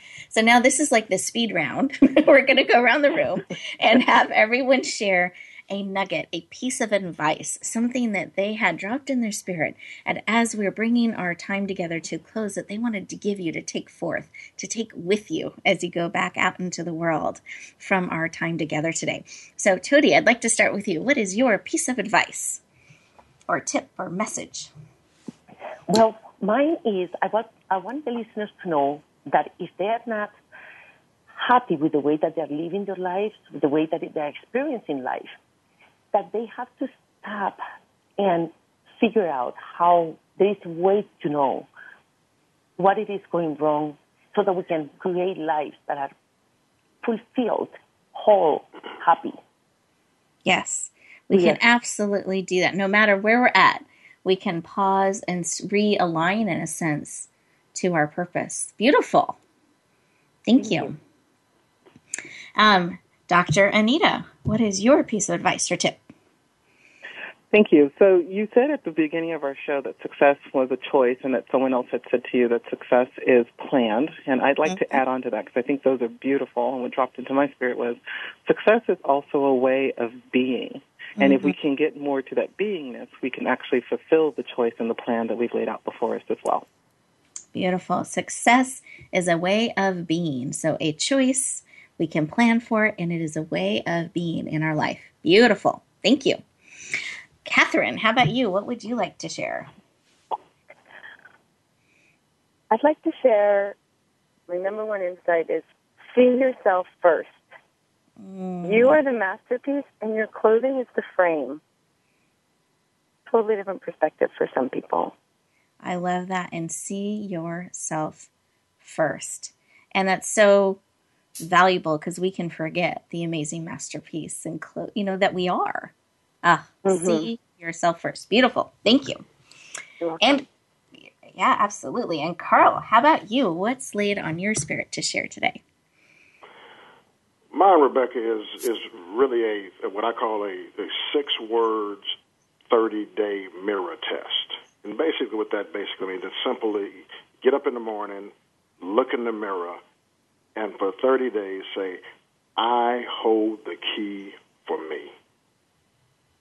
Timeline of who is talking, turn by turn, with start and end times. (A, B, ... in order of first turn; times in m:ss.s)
0:00.3-0:22.6 A
0:23.5-0:24.7 A
0:25.9-0:30.3 B
0:31.3-0:35.3 B
0:36.1-0:37.6 B
0:38.2-0:41.7 B
0:42.8-0:46.1 B
0:47.0-0:49.4 B
0:50.4-0:59.4 A
0:51.3-0:51.6 B
1:00.4-1:01.0 A
1:00.6-1:00.9 B
1:02.6-1:06.0 A
1:07.5-1:26.6 C
1:14.7-1:15.0 A
1:21.2-1:21.5 A
1:27.5-1:36.4 A
1:37.4-1:39.7 A
1:42.7-1:43.8 D
1:44.5-1:47.4 D
1:48.2-1:49.0 A
1:48.6-1:51.6 D
1:53.3-1:55.1 D
1:55.8-1:58.3 A
1:58.8-2:00.8 A
2:01.4-2:09.2 A
2:06.9-2:07.3 B
2:10.0-2:10.4 B
2:10.2-2:10.4 A
2:11.3-2:15.6 A
2:17.5-2:22.1 E
2:22.7-2:29.8 E
2:30.6-2:32.0 E
2:32.6-2:35.1 E